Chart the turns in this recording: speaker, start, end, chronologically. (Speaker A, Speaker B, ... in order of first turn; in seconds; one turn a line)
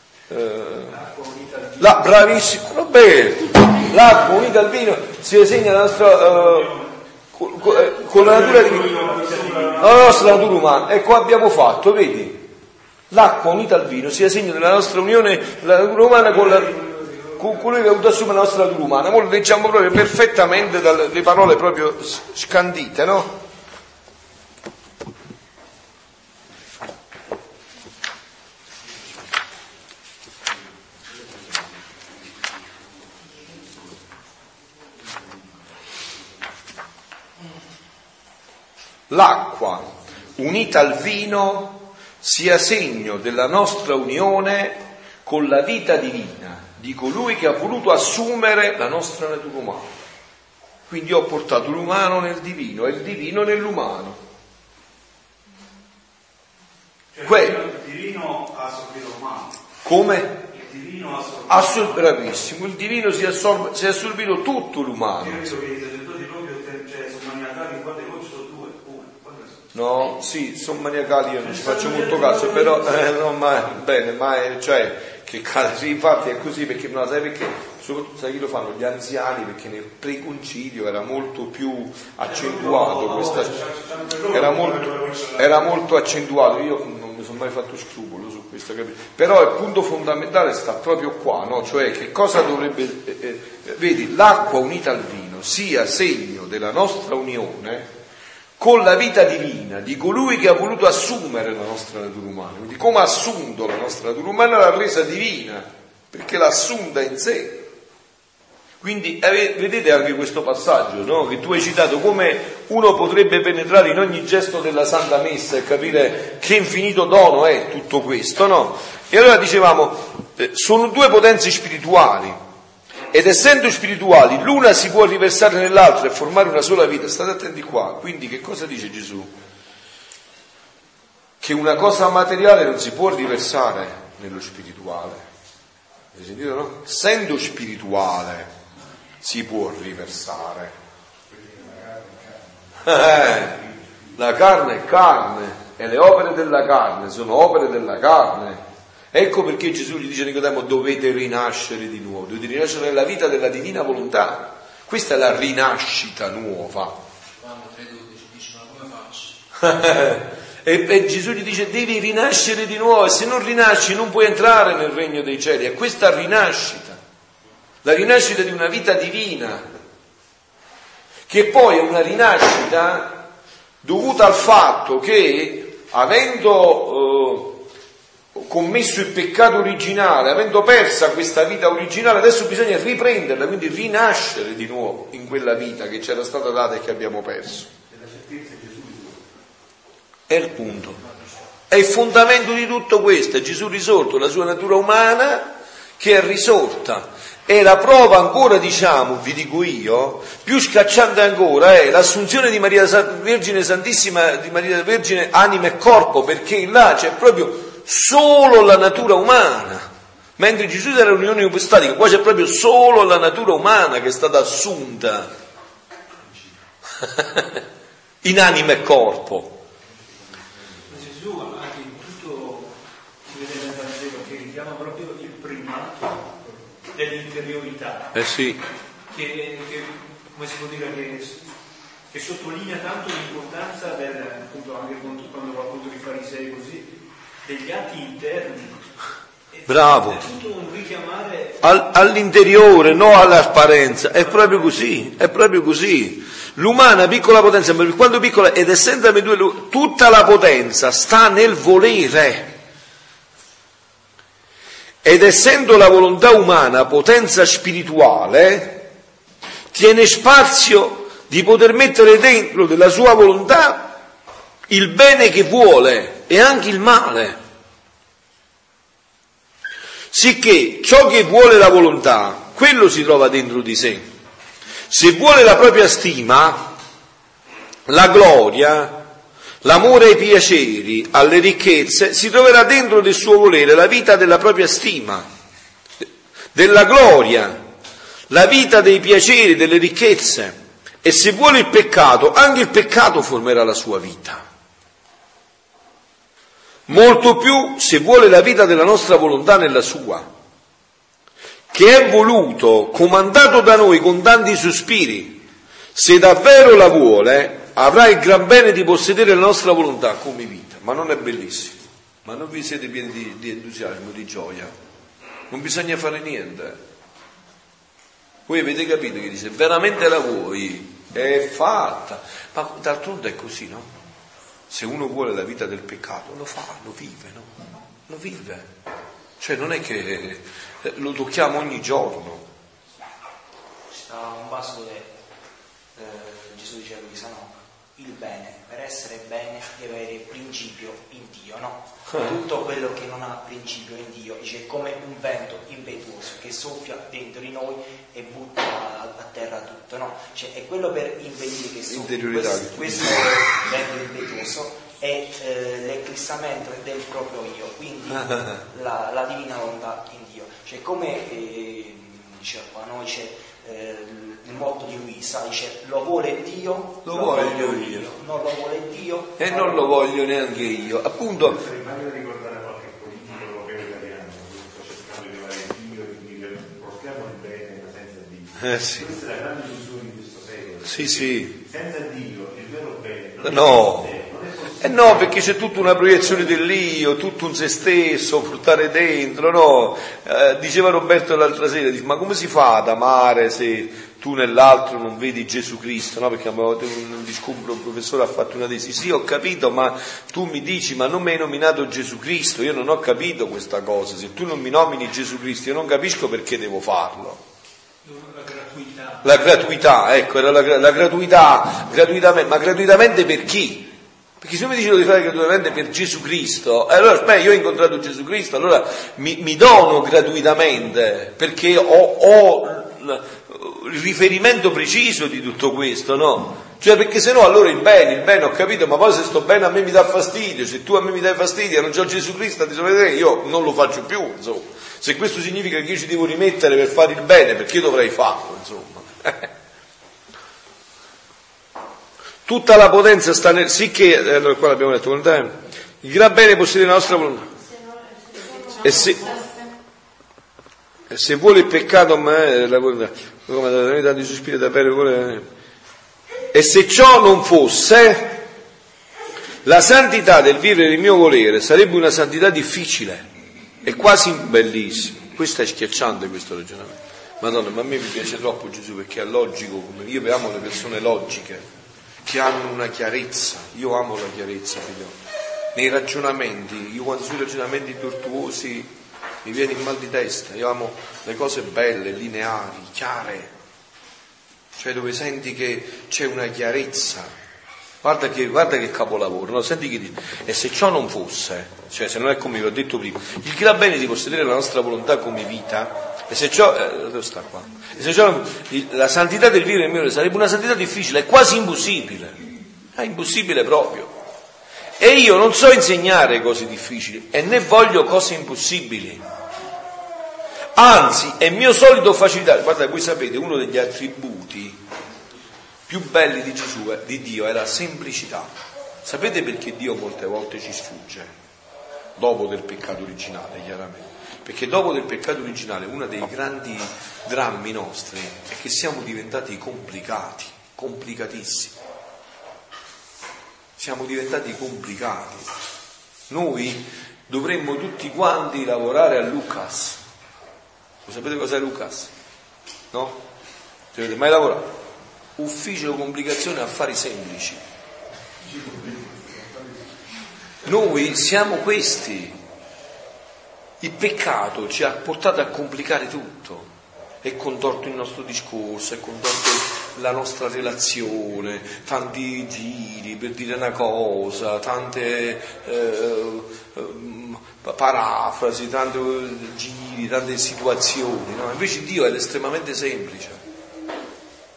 Speaker A: 0.3-1.0
Speaker B: 0.9-2.2
Speaker A: 1.8-6.7
Speaker A: 7.3-8.9
Speaker B: 8.1-10.2
Speaker C: 8.2-10.2
Speaker A: 9.8-12.5
Speaker A: 13.1-16.8
Speaker C: 16.5-17.4
Speaker A: 17.4-23.4
Speaker A: 39.1-49.9
Speaker A: 50.9-54.2
Speaker C: 57.1-59.5
Speaker A: 57.2-57.7
Speaker A: 59.8-60.4
Speaker C: 60.5-62.1
Speaker A: 61.5-65.5
Speaker C: 65.2-69.6
Speaker A: 69.7-83.6
Speaker C: 71.4-73.2
Speaker C: 82.2-85.6
Speaker A: 84.3-97.9
Speaker A: 98.6-107.7
Speaker A: 108.8-122.4
Speaker A: 123.1-129.3
Speaker A: 131.4-135.2
Speaker A: 136.1-138.5
Speaker A: 139.2-140.7
Speaker D: 141.3-144.1
Speaker A: 142.8-143.6
Speaker A: 144.2-157.0
Speaker E: 157.4-159.4
Speaker A: 159.6-167.0
Speaker A: 167.8-169.6
Speaker A: 171.3-173.2
Speaker A: 173.8-177.6
Speaker A: 178.3-187.7
Speaker D: 187.9-189.2
Speaker A: 190.3-191.0
Speaker A: 191.7-215.3
Speaker D: 216.2-216.5
Speaker A: 217.0-217.6
Speaker A: 218.2-219.6
Speaker D: 219.9-220.8
Speaker B: 220.9-228.1
Speaker A: 228.1-228.6
Speaker B: 229.1-231.5
Speaker B: 232.1-236.9
Speaker B: 237.4-238.8
Speaker B: 239.5-241.6
Speaker A: 239.7-240.2
Speaker A: 241.6-252.5
Speaker A: 255.0-258.9
Speaker A: 259.7-263.9
Speaker A: 264.7-267.4
Speaker A: 270.1-274.1
Speaker A: 274.9-276.7
Speaker A: 277.9-279.0
Speaker A: 279.6-285.2
Speaker A: 286.5-287.6
Speaker A: 288.3-294.4
Speaker A: 296.9-300.3
Speaker A: 301.7-314.7
Speaker A: 315.5-316.8
Speaker A: 318.5-323.9
Speaker A: 324.7-327.5
Speaker A: 328.1-328.7
Speaker A: 329.4-332.4
Speaker F: 333.9-335.1
Speaker F: 335.9-369.8
Speaker A: 351.9-353.6
Speaker A: 367.0-368.2
Speaker A: 369.4-371.6
Speaker D: 371.3-386.5
Speaker A: 378.6-379.1
Speaker A: 380.8-381.6
Speaker A: 383.4-384.2
Speaker A: 384.8-407.4
Speaker B: 408.0-409.3
Speaker A: 409.2-413.9
Speaker A: 414.4-439.5
Speaker A: 442.4-447.5
Speaker A: 448.8-449.3
Speaker A: 451.1-455.5
Speaker A: 456.5-458.4
Speaker A: 459.6-463.3
Speaker A: 463.8-471.6
Speaker A: 472.2-475.2
Speaker A: 475.7-478.9
Speaker A: 479.4-483.5
Speaker A: 484.7-487.3
Speaker A: 488.0-502.4
Speaker A: 502.9-504.1
Speaker A: 505.0-509.2
Speaker A: 510.7-514.8
Speaker A: 515.9-521.3
Speaker A: 522.1-531.8
Speaker A: 533.8-535.5
Speaker A: 536.3-540.0
Speaker A: 541.0-542.1
Speaker A: 542.9-543.2
Speaker A: 543.9-544.8
Speaker A: 545.4-547.6
Speaker A: 550.6-552.4
Speaker A: 553.8-573.4